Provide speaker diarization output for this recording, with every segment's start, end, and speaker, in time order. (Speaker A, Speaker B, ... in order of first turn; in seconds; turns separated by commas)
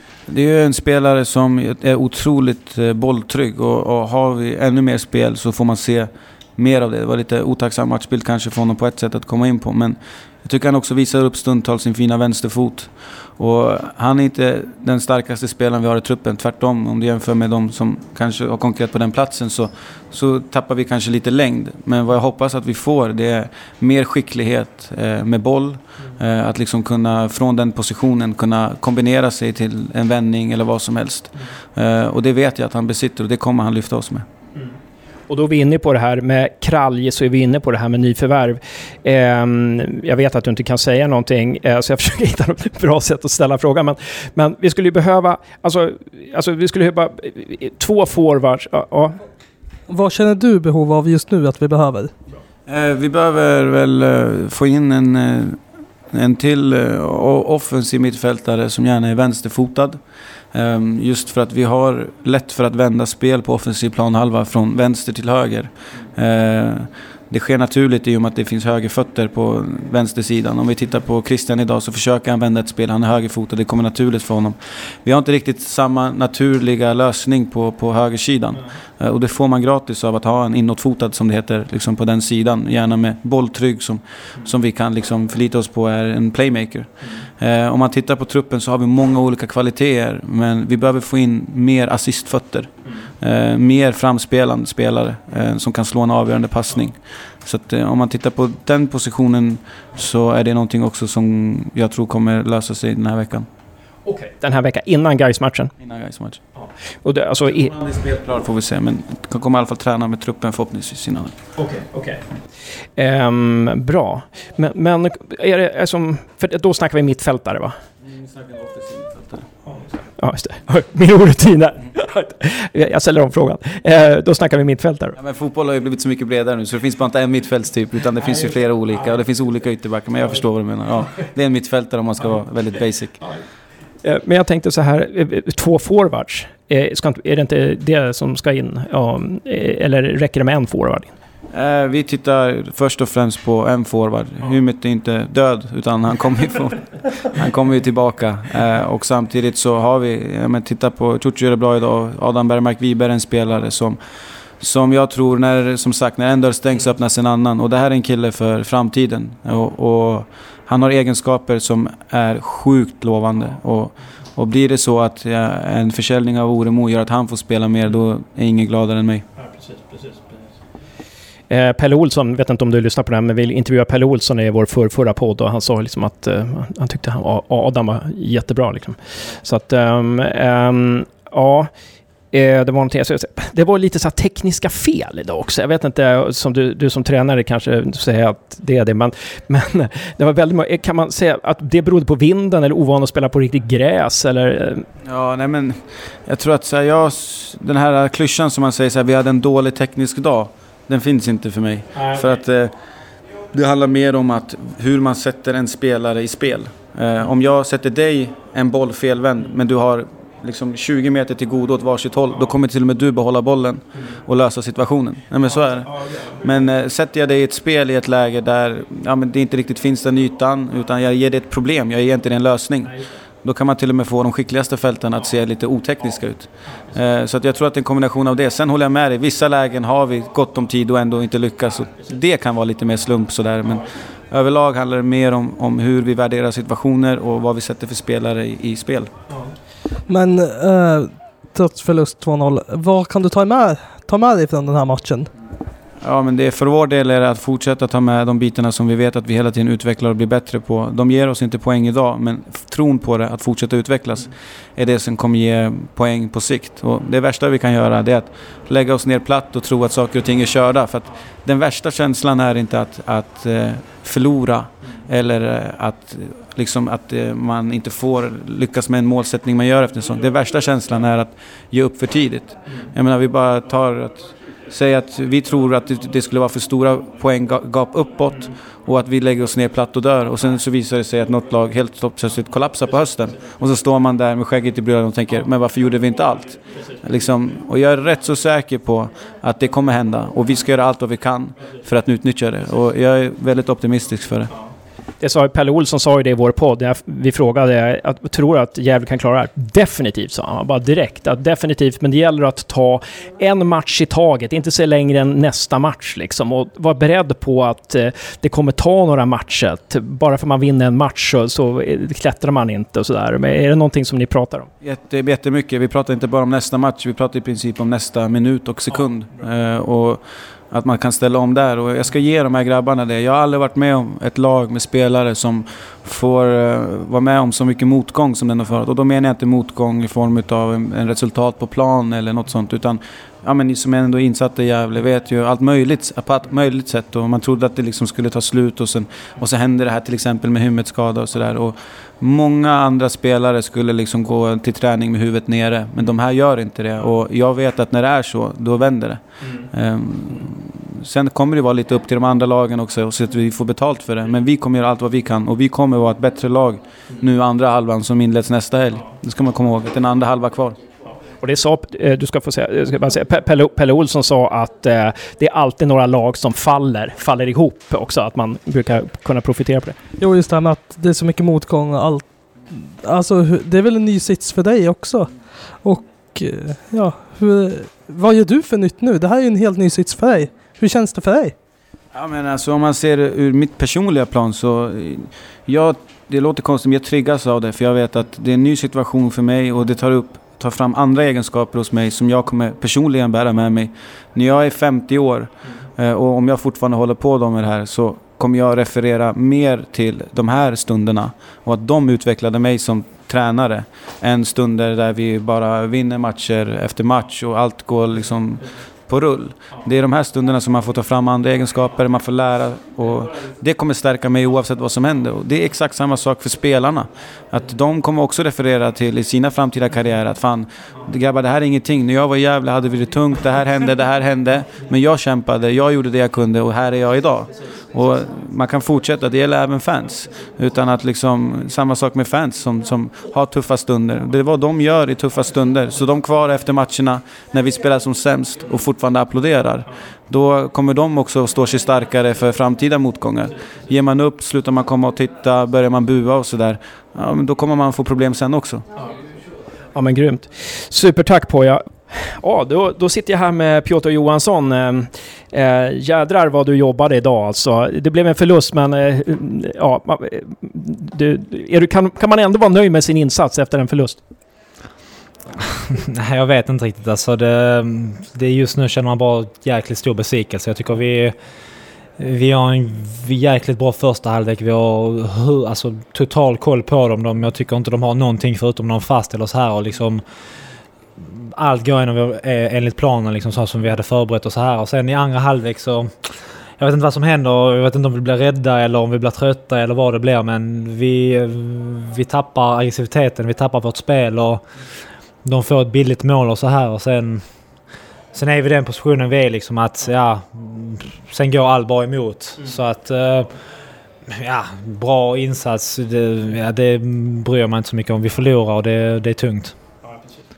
Speaker A: 0.3-34.2, Speaker B: 35.3-49.2, Speaker C: 49.9-52.1, Speaker A: 52.7-55.6, Speaker A: 56.1-60.0, Speaker A: 60.5-103.5, Speaker B: 104.0-105.7, Speaker A: 105.8-106.4, Speaker B: 106.6-107.7, Speaker A: 107.4-111.4, Speaker B: 111.5-117.8, Speaker A: 118.0-119.5, Speaker B: 119.7-125.2, Speaker A: 125.2-133.2, Speaker B: 134.0-141.1, Speaker A: 141.5-154.0, Speaker A: 154.6-169.2, Speaker B: 169.4-170.4, Speaker B: 171.5-181.7, Speaker B: 182.3-194.9, Speaker A: 195.0-202.7, Speaker B: 201.9-202.2, Speaker A: 203.5-239.1, Speaker C: 240.1-245.3, Speaker A: 246.0-294.5, Speaker B: 295.2-314.7, Speaker A: 314.8-349.2, Speaker A: 349.7-360.8, Speaker B: 361.4-369.9, Speaker C: 370.2-381.5, Speaker A: 382.1-448.8, Speaker B: 449.9-464.2, Speaker D: 465.9-471.4, Speaker D: 472.2-480.2, Speaker D: 481.2-494.6, Speaker D: 495.4-497.5, Speaker D: 498.3-503.5, Speaker D: 504.3-509.8